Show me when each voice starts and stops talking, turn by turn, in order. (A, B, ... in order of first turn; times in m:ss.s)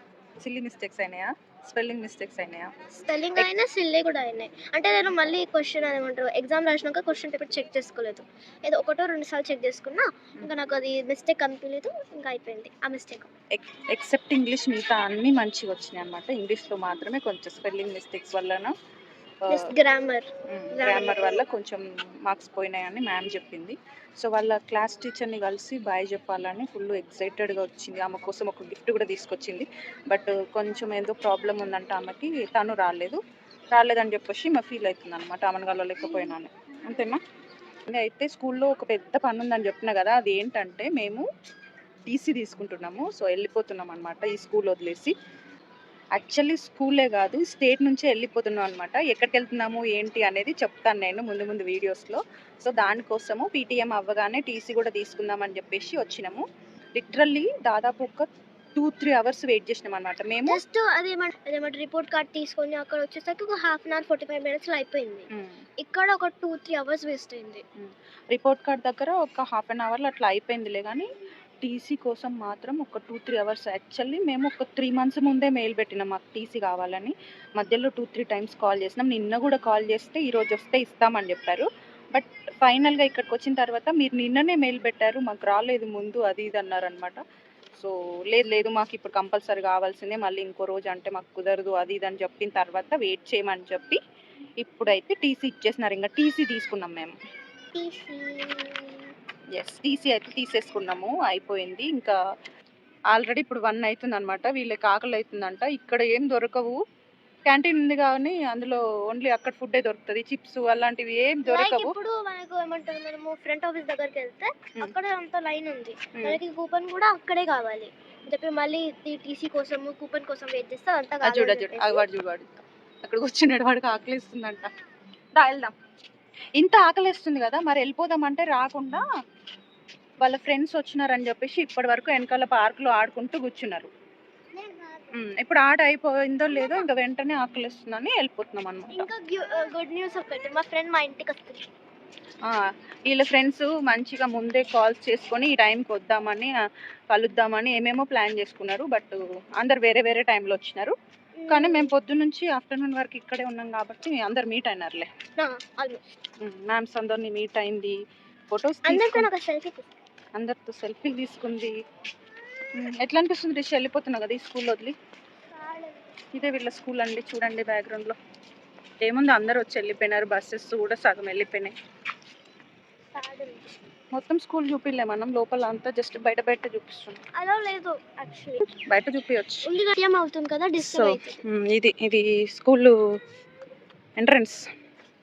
0:00.4-0:02.7 A
0:03.0-0:13.3 B
0:13.5-0:18.7 A
0:19.4-0:19.7 A
0:19.5-0:21.3 B
0:20.5-0:33.2 A
0:33.7-0:37.2 A
0:37.9-0:41.3 A
0:42.1-0:45.1 A
0:46.2-1:00.6 A
1:00.5-1:05.3 B
1:05.8-1:07.6 B
1:07.8-1:11.1 A
1:11.6-1:27.2 A
1:27.7-1:34.0 A
1:34.6-1:37.1 A
1:37.7-1:39.0 B
1:39.6-1:42.2 A
1:43.1-1:46.8 A
1:47.5-1:51.9 A
1:51.5-2:02.0 B
1:56.1-1:56.4 A
2:01.2-2:04.7 A
2:05.4-2:05.7 A
2:06.6-2:09.0 A
2:10.2-2:13.9 A
2:14.5-2:15.1 B
2:15.1-2:19.1 A
2:19.0-2:21.7 B
2:23.1-2:26.5 A
2:27.1-2:30.9 A
2:31.4-2:31.9 B
2:31.5-2:35.1 A
2:35.4-2:36.0 B
2:36.4-2:38.0 A
2:38.5-2:39.3 A
2:38.8-2:39.9 B
2:40.3-2:41.7 A
2:42.7-2:45.0 A
2:45.5-2:46.1 B
2:46.3-2:48.2 A
2:49.0-2:51.7 A
2:53.1-2:53.7 B
2:54.1-2:57.2 A
2:57.4-2:58.6 B
2:58.8-2:59.7 A
2:59.7-3:01.4 B
3:00.8-3:02.9 A
3:04.2-3:04.6 A